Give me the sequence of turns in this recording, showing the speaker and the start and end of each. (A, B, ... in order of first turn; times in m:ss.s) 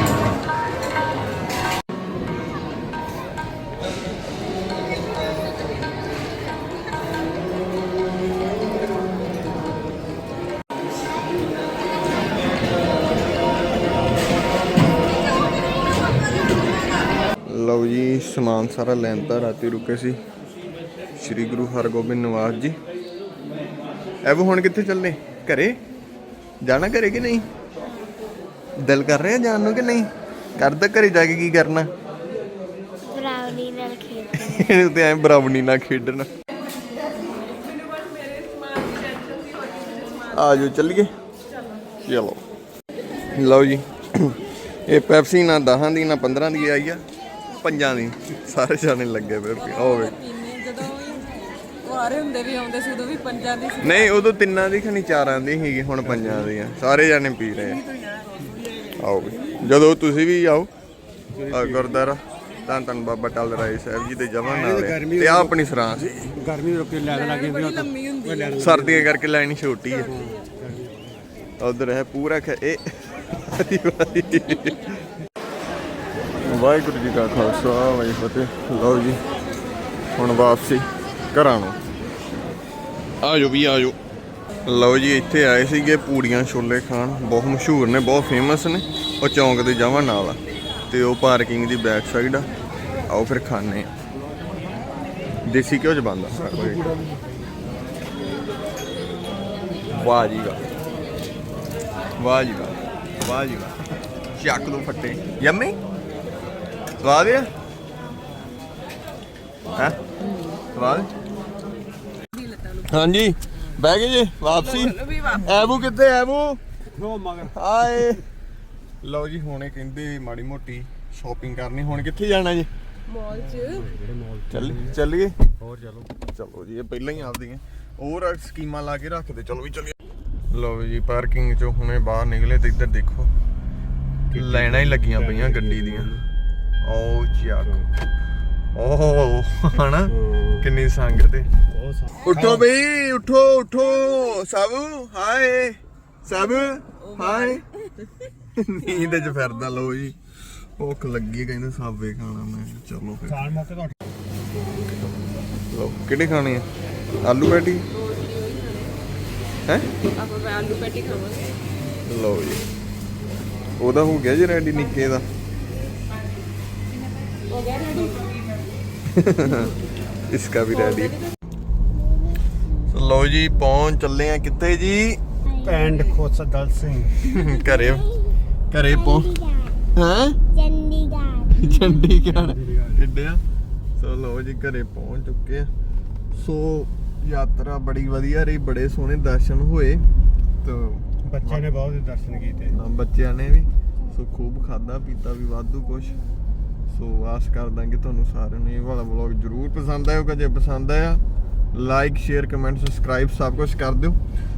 0:17.4-0:20.2 A
0:21.2-0:22.8 A
0:24.3-0:25.8 A
0:26.6-0:27.4 A
0:28.8-0:31.9 A
0:33.1-0:34.7 B
0:34.3-0:36.3 A
0:37.9-0:40.2 C
0:40.3-0:41.1 A
0:42.0-0:42.4 A
0:43.4-0:47.0 A
0:47.6-0:50.2 A
0:50.1-0:53.8 C
0:53.8-0:57.8 A
0:56.1-0:56.4 D
0:59.0-1:00.7 A
1:01.4-1:02.0 D
1:01.5-1:06.2 A
1:04.4-1:05.6 D
1:06.2-1:09.1 D
1:07.1-1:08.6 C
1:08.6-1:10.1 A
1:10.0-1:11.4 D
1:11.6-1:14.8 A
1:16.4-1:19.2 A
1:20.1-1:21.8 A
1:23.2-1:24.0 A
1:24.7-1:30.4 A
1:30.9-1:32.5 A
1:33.1-1:33.9 A
1:35.4-1:36.9 A
1:39.9-1:40.6 A
1:42.2-1:43.8 A
1:44.4-1:45.8 A
1:47.0-1:47.5 A
1:49.7-1:50.0 A
1:50.7-1:51.1 A
1:52.4-1:52.7 C
1:52.8-1:56.6 A
1:54.7-1:55.4 C
1:56.9-1:58.1 D
1:57.5-1:58.2 A
1:59.0-2:02.7 A
2:03.1-2:03.9 C
2:03.5-2:05.0 D
2:04.5-2:05.4 A
2:05.6-2:06.1 D
2:06.3-2:09.9 A
2:10.5-2:13.3 A
2:14.3-2:16.2 D
2:14.4-2:16.1 A
2:16.8-2:17.8 A
2:18.8-2:21.5 A
2:20.1-2:20.6 D
2:21.7-2:22.7 D
2:22.2-2:27.6 A
2:27.0-2:28.1 C
2:28.6-2:33.5 A
2:33.3-2:34.0 D
2:35.7-2:36.7 A
2:37.2-2:37.8 A
2:38.0-2:38.9 C
2:39.7-2:39.9 A
2:40.2-2:41.5 C
2:42.0-2:42.6 A
2:43.8-2:45.3 A
2:47.5-2:48.4 C
2:49.1-2:49.7 A
2:50.3-2:51.2 A
2:52.9-2:55.2 A
2:55.5-2:56.0 B
2:55.6-2:57.2 D
2:57.2-2:58.2 A
2:58.7-3:00.4 A
2:59.2-2:59.8 B
3:00.6-3:01.5 B
3:01.4-3:03.4 A
3:02.3-3:03.0 D
3:04.0-3:05.7 A
3:06.4-3:10.0 A
3:10.6-3:11.6 A
3:11.2-3:12.8 D
3:12.7-3:16.2 A
3:16.9-3:21.2 A
3:21.7-3:24.2 A